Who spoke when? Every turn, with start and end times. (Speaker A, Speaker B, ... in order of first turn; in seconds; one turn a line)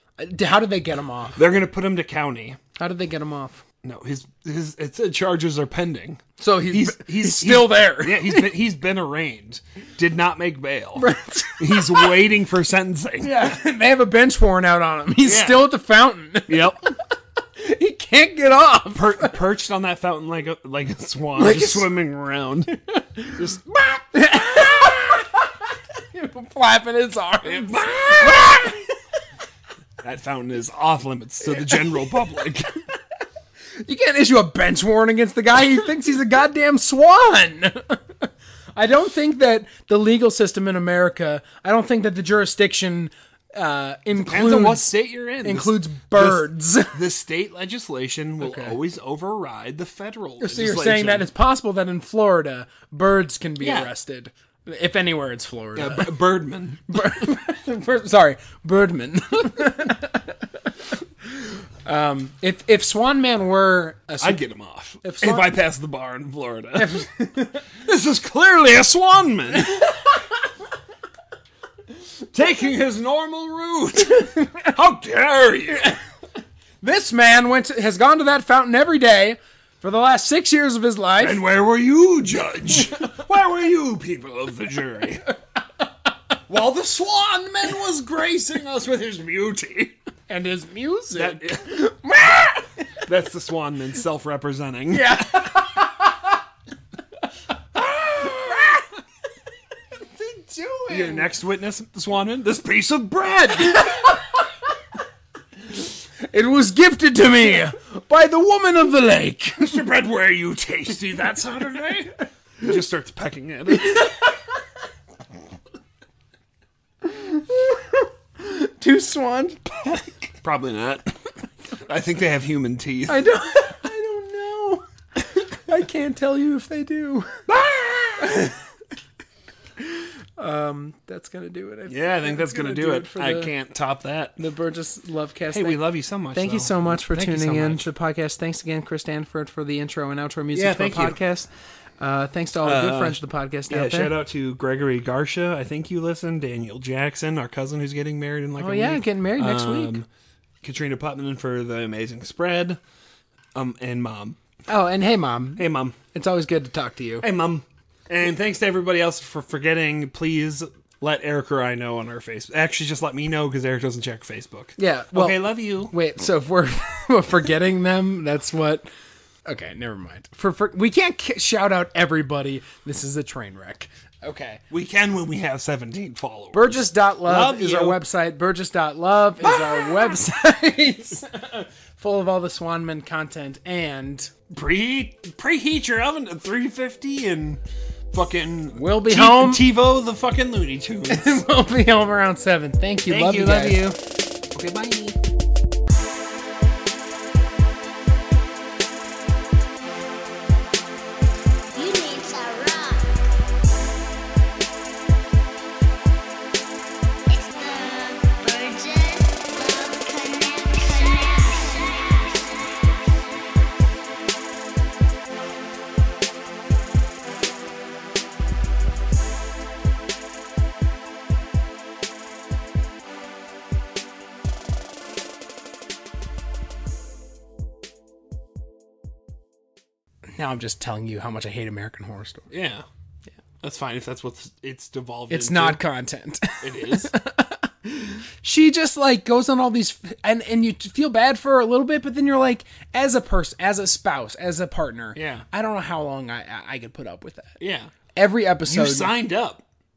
Speaker A: 0.2-1.4
Speaker B: 1.4-2.6
Speaker A: 2.8-3.6
Speaker B: 3.8-13.6
Speaker A: 6.4-8.5
Speaker A: 11.0-12.2
Speaker A: 13.2-17.0
Speaker B: 15.2-15.7
Speaker B: 16.5-16.8
Speaker A: 17.6-19.3
Speaker B: 18.9-22.8
Speaker A: 21.4-21.9
Speaker A: 22.9-23.4
Speaker B: 23.3-24.9
Speaker A: 24.1-28.9
Speaker B: 27.4-28.8
Speaker B: 30.0-32.8
Speaker A: 31.5-32.0
Speaker A: 33.8-44.9
Speaker B: 44.2-51.3
Speaker A: 45.4-47.0
Speaker A: 48.4-48.8
Speaker A: 50.4-56.2
Speaker B: 53.6-53.9
Speaker B: 55.8-57.3
Speaker A: 56.9-60.5
Speaker A: 61.4-64.4
Speaker B: 64.2-67.1
Speaker A: 65.0-65.5
Speaker A: 66.8-67.7
Speaker B: 67.7-69.9
Speaker B: 72.3-76.0
Speaker A: 76.8-81.4
Speaker B: 81.2-85.3
Speaker B: 86.5-89.9
Speaker A: 90.3-92.6
Speaker B: 91.2-91.9
Speaker B: 93.1-95.5
Speaker A: 94.9-96.2
Speaker B: 97.8-98.7
Speaker A: 97.9-98.8
Speaker A: 100.0-101.3
Speaker B: 100.9-104.2
Speaker A: 106.2-109.7
Speaker B: 109.6-114.1
Speaker A: 113.8-114.2
Speaker A: 117.0-120.3
Speaker B: 120.4-121.2
Speaker B: 121.8-123.2
Speaker A: 123.1-127.5
Speaker B: 127.5-128.5
Speaker A: 128.2-128.5
Speaker A: 129.8-133.5
Speaker B: 131.9-134.4
Speaker A: 134.4-135.8
Speaker B: 135.5-137.9
Speaker A: 136.3-144.2
Speaker B: 140.5-141.2
Speaker B: 142.6-150.1
Speaker A: 148.6-150.0
Speaker B: 150.6-152.8
Speaker B: 153.5-154.4
Speaker A: 154.7-157.3
Speaker B: 155.6-156.0
Speaker B: 157.2-165.9
Speaker A: 164.8-168.9
Speaker A: 169.5-174.6
Speaker B: 174.7-178.0
Speaker A: 176.5-184.3
Speaker B: 179.4-180.2
Speaker B: 184.5-191.5
Speaker A: 188.7-189.6
Speaker A: 191.1-193.9
Speaker B: 193.1-194.0
Speaker B: 194.5-195.2
Speaker C: 201.7-203.2
Speaker C: 207.3-212.9
Speaker A: 230.3-232.5
Speaker B: 232.5-232.9
Speaker B: 233.6-235.8
Speaker A: 235.3-247.6
Speaker B: 236.6-237.1
Speaker B: 245.2-245.5
Speaker B: 247.6-247.9
Speaker A: 248.2-249.1
Speaker B: 248.7-249.6